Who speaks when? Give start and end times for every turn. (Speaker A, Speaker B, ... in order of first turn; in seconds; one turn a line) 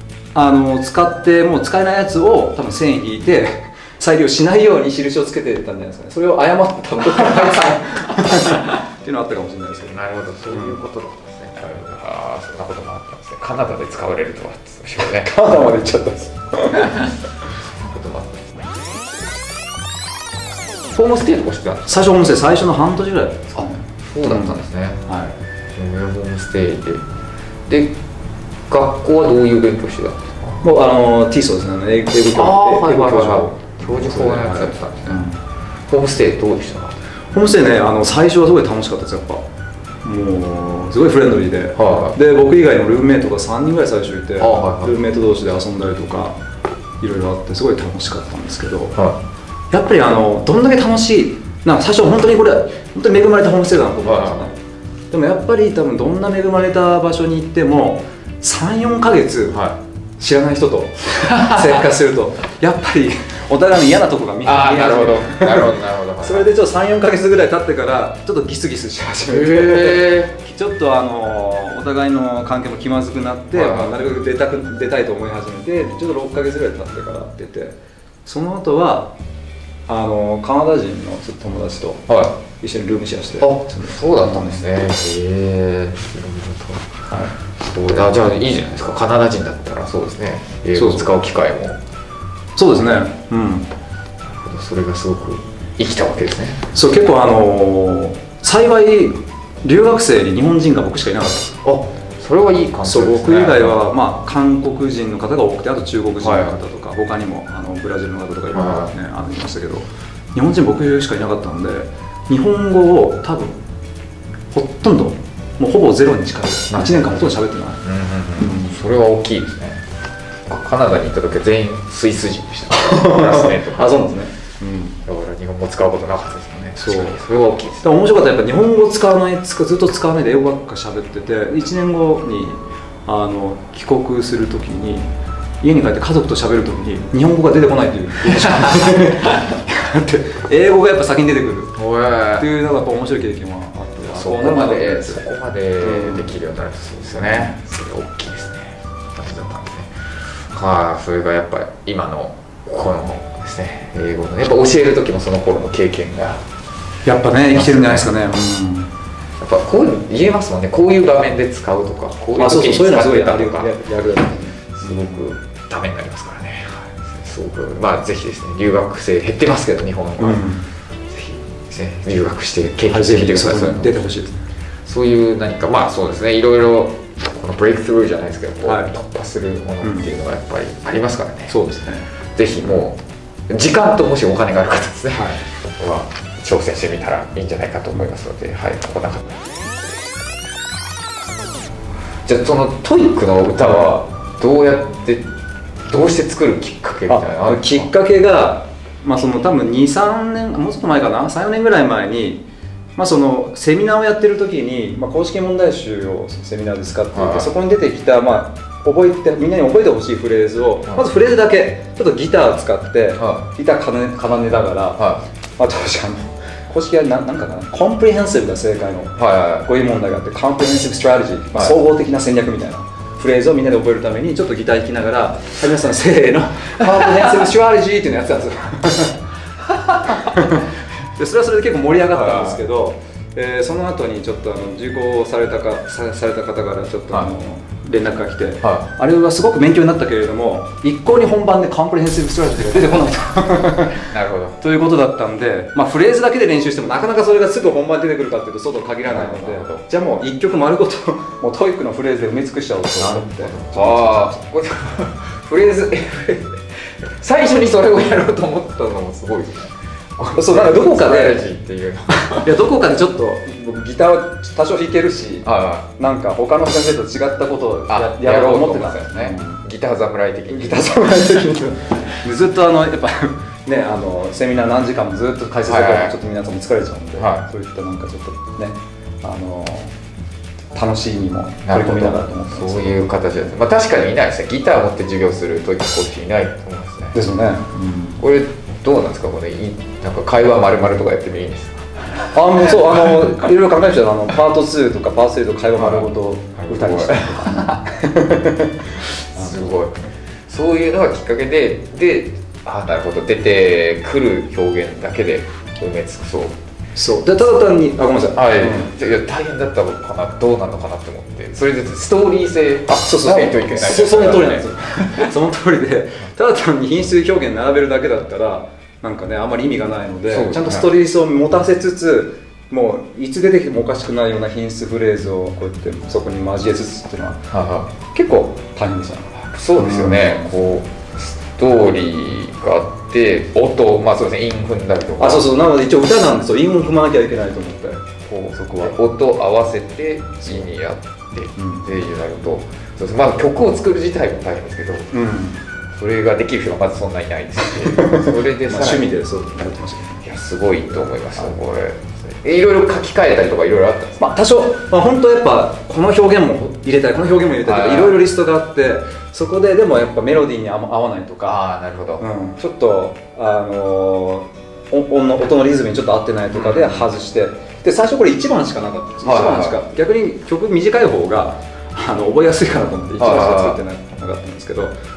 Speaker A: 0.3-10.8
Speaker B: 7.2-7.7
Speaker B: 9.9-15.3
Speaker A: 15.0-17.1
Speaker B: 16.8-18.7
Speaker B: 20.9-22.1
Speaker A: 21.9-25.3
Speaker B: 23.5-25.0
Speaker B: 25.7-27.0
Speaker B: 27.7-27.9
Speaker B: 28.7-30.6
Speaker A: 30.6-35.4
Speaker B: 32.3-35.3
Speaker B: 35.9-37.0
Speaker A: 37.3-39.4
Speaker A: 40.0-46.3
Speaker B: 41.8-42.2
Speaker B: 44.4-45.0
Speaker A: 47.0-49.0
Speaker A: 49.7-54.5
Speaker B: 54.0-54.4
Speaker A: 55.1-59.6
Speaker B: 59.5-59.8
Speaker A: 60.2-77.7
Speaker B: 61.3-61.9
Speaker B: 64.4-66.5
Speaker B: 69.3-70.3
Speaker B: 73.5-73.9
Speaker A: 78.2-79.1
Speaker A: 79.9-84.6
Speaker B: 82.1-82.3
Speaker B: 83.4-86.9
Speaker B: 87.6-91.8
Speaker A: 90.7-91.1
Speaker A: 92.5-93.7
Speaker B: 92.7-93.0
Speaker B: 94.2-96.7
Speaker A: 96.7-101.6
Speaker B: 101.6-103.8
Speaker A: 102.8-113.6
Speaker B: 106.2-106.6
Speaker B: 108.5-108.9
Speaker A: 114.5-117.8
Speaker B: 116.7-117.1
Speaker B: 117.8-119.8
Speaker A: 118.4-118.8
Speaker B: 120.5-124.2
Speaker A: 122.7-125.0
Speaker B: 125.0-127.9
Speaker A: 126.8-127.2
Speaker A: 127.8-135.1
Speaker A: 135.6-141.8
Speaker B: 138.3-138.6
Speaker B: 141.8-142.5
Speaker A: 142.4-145.2
Speaker B: 144.1-156.4
Speaker A: 145.8-146.3
Speaker A: 147.1-147.5
Speaker A: 157.0-158.9
Speaker B: 157.4-158.2
Speaker B: 159.4-163.7
Speaker A: 162.4-165.2
Speaker B: 164.8-170.4
Speaker A: 170.2-170.6
Speaker B: 171.1-174.1
Speaker A: 172.9-174.4
Speaker B: 174.8-181.6
Speaker A: 178.6-178.9
Speaker A: 179.8-180.1
Speaker A: 181.5-182.1
Speaker B: 182.3-189.3
Speaker A: 185.1-185.4
Speaker B: 192.2-195.2
Speaker B: 195.9-197.9
Speaker A: 197.1-202.4
Speaker A: 202.9-229.2
Speaker B: 207.1-207.5
Speaker B: 213.2-213.5
Speaker B: 215.0-215.2
Speaker B: 219.2-219.7
Speaker B: 226.8-227.4
Speaker B: 229.7-230.6
Speaker A: 230.1-244.1
Speaker B: 232.1-232.7
Speaker B: 238.6-238.9
Speaker B: 243.9-244.6
Speaker A: 244.6-254.4
Speaker B: 249.1-249.8
Speaker B: 253.0-262.6
Speaker A: 260.4-261.4
Speaker A: 262.3-269.6
Speaker B: 265.4-265.9
Speaker B: 267.9-271.4
Speaker A: 270.5-279.9
Speaker B: 275.6-276.1
Speaker B: 277.2-277.4
Speaker A: 280.7-283.0
Speaker B: 281.6-287.2
Speaker A: 287.1-288.2
Speaker B: 288.2-291.9
Speaker A: 292.3-299.8
Speaker B: 292.7-293.3
Speaker B: 295.8-297.8
Speaker B: 299.3-306.6
Speaker A: 306.9-308.9
Speaker B: 308.3-315.4
Speaker A: 313.0-330.5
Speaker B: 320.3-320.9
Speaker B: 327.5-327.9
Speaker B: 329.5-335.5
Speaker A: 335.2-339.0
Speaker B: 338.2-345.1
Speaker A: 341.6-341.9
Speaker A: 345.1-345.6
Speaker B: 346.0-349.1
Speaker A: 347.6-350.2
Speaker B: 350.2-354.2
Speaker A: 354.2-361.6
Speaker B: 357.6-358.2
Speaker B: 361.4-362.2
Speaker A: 362.2-374.9
Speaker B: 366.5-367.1
Speaker B: 369.2-369.8
Speaker B: 373.2-373.8